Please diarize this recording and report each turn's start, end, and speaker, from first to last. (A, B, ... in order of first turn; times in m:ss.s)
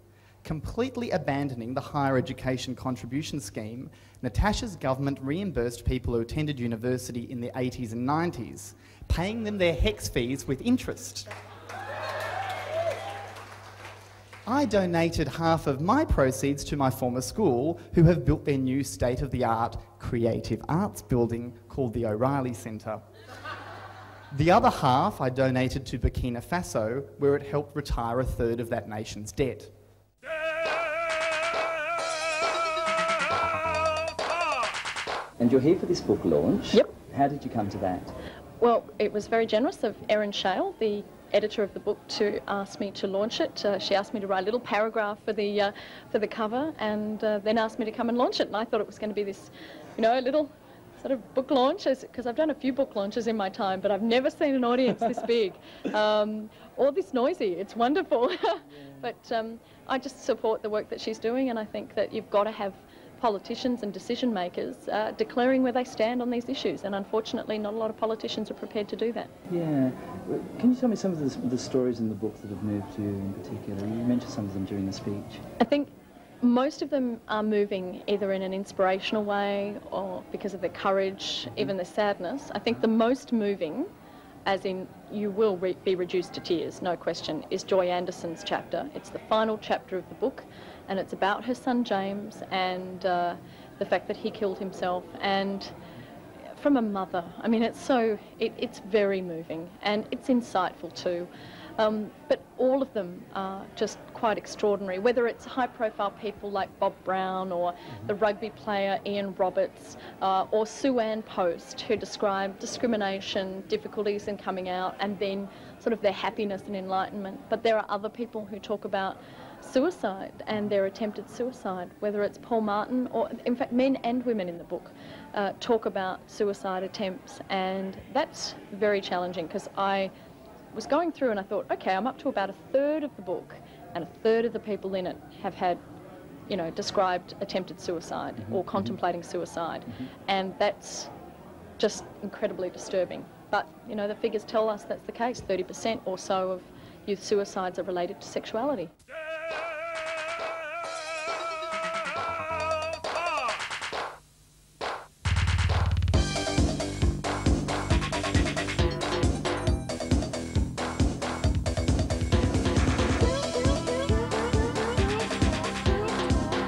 0:00.4-0:11.3 A
0:14.5-0:23.0 A
0:24.3-0:29.7 A
0:35.4-0:38.1 B
0:38.6-0:50.5 C
0:51.0-1:09.3 C
1:09.5-1:15.4 B
1:15.6-1:15.9 C
1:16.4-1:23.9 C
1:24.4-1:35.7 C
1:36.6-2:10.1 C
2:10.7-2:15.8 C
2:16.5-2:21.1 C
2:18.4-2:19.0 B
2:21.8-2:28.9 C